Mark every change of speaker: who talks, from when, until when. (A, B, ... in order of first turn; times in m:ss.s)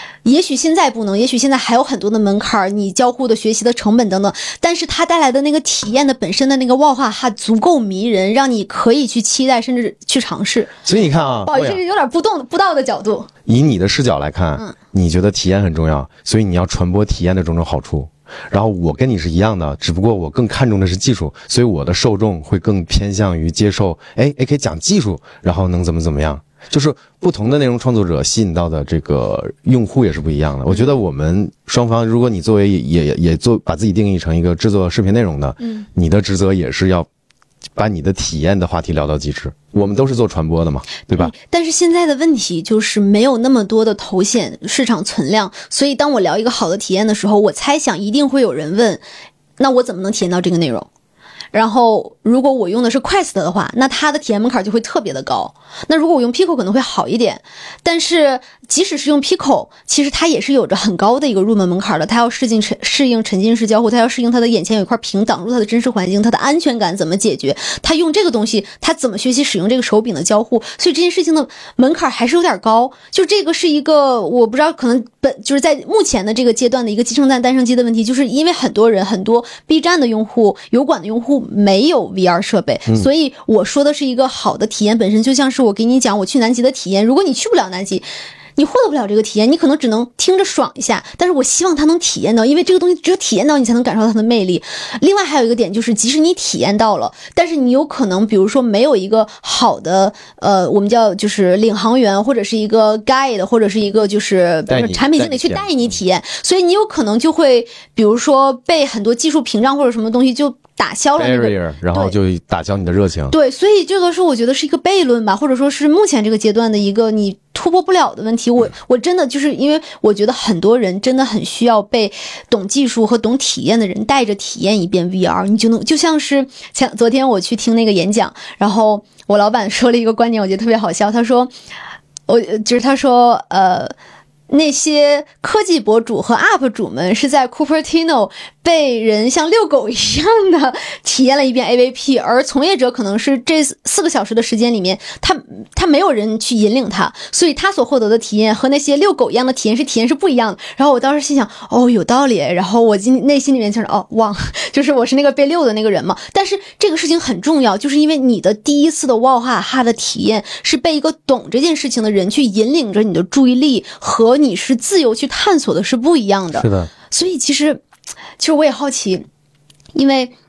0:00.2-0:10.8 A
0:10.8-0:11.8 B
0:11.5-0:13.3 A
0:13.5-0:37.1 B
0:37.8-0:41.3 B
0:41.1-0:49.0 A
0:49.6-0:50.9 A
0:51.5-1:28.0 A
1:28.6-1:52.2 A
1:44.7-1:45.8 B
1:51.2-1:53.4 B
1:53.3-2:11.5 A
2:12.3-2:13.9 A
2:14.5-2:47.8 A
2:46.6-2:46.9 B
2:48.4-2:49.3 A
2:49.9-2:50.3 A